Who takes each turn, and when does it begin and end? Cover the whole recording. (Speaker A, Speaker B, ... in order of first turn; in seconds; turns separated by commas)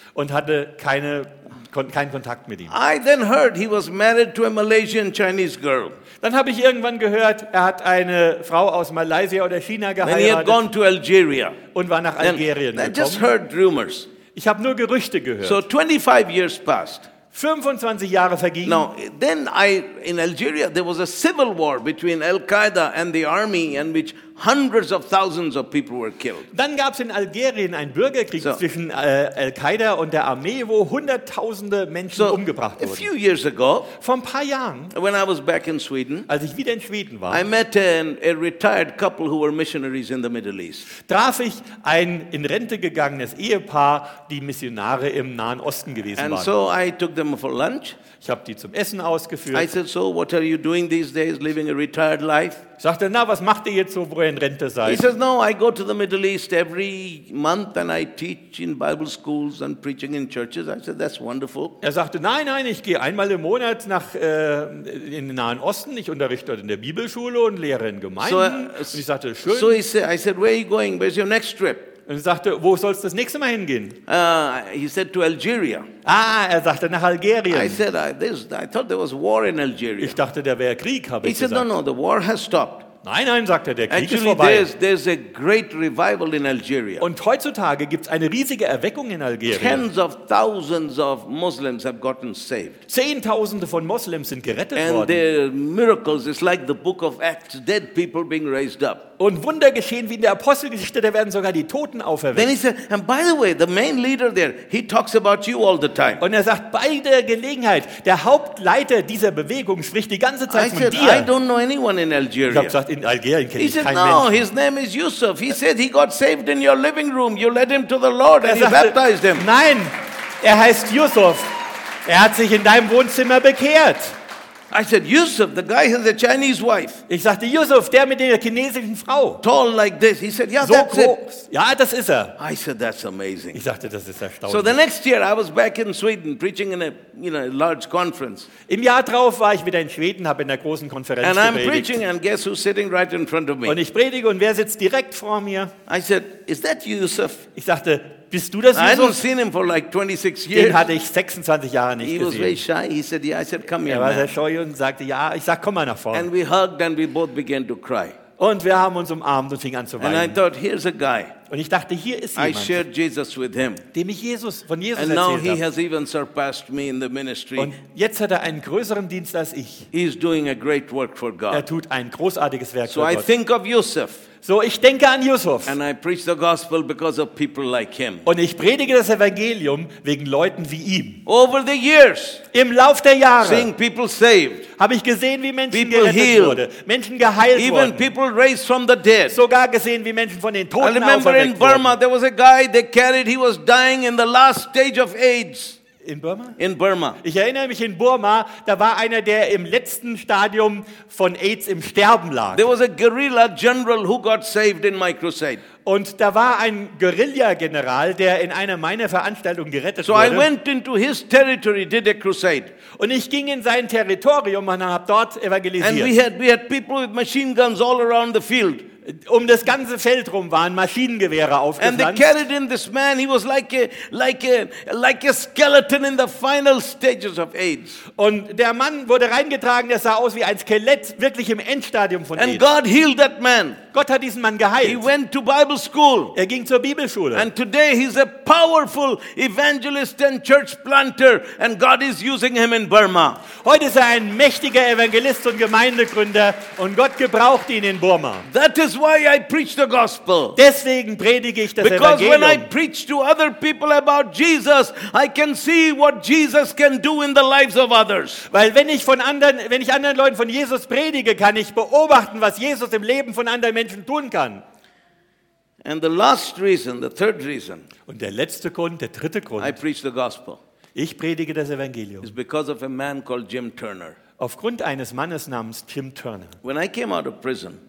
Speaker A: 0.1-2.7, Speaker B: 2.7-6.0, Speaker A: 6.2-10.6, Speaker B: 10.0-11.6, Speaker A: 11.7-13.3, Speaker B: 12.2-14.1, Speaker A: 14.3-15.6, Speaker B: 15.4-17.1, Speaker A: 17.3-18.9, Speaker B: 18.6-26.5, Speaker A: 26.5-33.1, Speaker B: 32.1-33.9, Speaker A: 33.9-34.9, Speaker B: 34.9-36.3, Speaker A: 36.3-37.4, Speaker B: 37.3-40.9, Speaker A: 41.0-46.5, Speaker B: 46.1-48.0, Speaker A: 48.2-49.7, Speaker B: 49.5-52.6, Speaker A: 52.8-55.1, Speaker B: 54.8-61.8, Speaker A: 61.8-69.8, Speaker B: 68.2-71.9, Speaker A: 72.1-74.0, Speaker B: 74.1-75.9, Speaker A: 76.0-77.8, Speaker B: 77.5-80.2, Speaker A: 80.0-81.7, Speaker B: 81.2-82.9, Speaker A: 83.0-84.7, Speaker B: 83.9-87.1, Speaker A: 87.0-89.8, Speaker B: 89.5-92.8, Speaker A: 92.9-95.2, Speaker B: 94.7-99.1, Speaker A: 99.2-102.5, Speaker B: 102.3-106.2, Speaker A: 106.2-111.3, Speaker B: 110.5-112.7, Speaker A: 112.5-114.4, Speaker B: 113.6-119.5, Speaker A: 118.4-124.2, Speaker B: 124.7-127.0, Speaker A: 127.1-129.4, Speaker B: 129.4-131.2, Speaker A: 130.6-132.3, Speaker B: 132.4-133.6, Speaker A: 133.5-134.8, Speaker B: 134.4-138.5, Speaker A: 138.7-142.0, Speaker B: 141.2-143.8, Speaker A: 143.7-145.7, Speaker B: 145.9-147.4, Speaker A: 147.5-149.2, Speaker B: 148.7-150.8, Speaker A: 150.5-152.6, Speaker B: 152.0-154.3, Speaker A: 153.8-156.3, Speaker B: 156.1-158.2, Speaker A: 158.4-160.4, Speaker B: 160.0-161.3, Speaker A: 161.5-162.8, Speaker B: 162.3-163.8, Speaker A: 163.9-165.6, Speaker B: 164.9-167.8, Speaker A: 167.6-169.9, Speaker B: 169.9-171.6, Speaker A: 171.5-173.3, Speaker B: 172.9-174.2, Speaker A: 174.4-175.8, Speaker B: 175.7-178.3, Speaker A: 178.2-181.2, Speaker B: 181.2-182.4, Speaker A: 182.5-183.7, Speaker B: 183.4-184.7, Speaker A: 184.8-188.1, Speaker B: 185.7-186.6, Speaker B: 187.5-189.4, Speaker A: 189.3-191.9, Speaker B: 190.8-195.8, Speaker A: 196.0-196.6, Speaker B: 196.6-197.2, Speaker A: 197.2-202.7, Speaker B: 202.5-205.6, Speaker A: 205.8-210.5, Speaker B: 210.0-212.7, Speaker A: 212.9-216.1, Speaker B: 215.8-218.8, Speaker A: 219.1-222.2, Speaker B: 221.8-228.0, Speaker A: 228.1-232.7, Speaker B: 232.4-233.8, Speaker A: 233.9-235.1, Speaker B: 234.8-236.3, Speaker A: 236.3-237.5, Speaker B: 237.3-243.4, Speaker A: 243.5-248.4, Speaker B: 248.4-250.6, Speaker A: 250.6-252.7, Speaker B: 251.8-258.4, Speaker A: 258.5-264.6, Speaker B: 265.8-267.9, Speaker A: 268.1-269.8, Speaker B: 269.6-270.6, Speaker A: 270.9-272.3, Speaker B: 272.2-274.2, Speaker A: 274.4-276.6, Speaker B: 276.6-277.8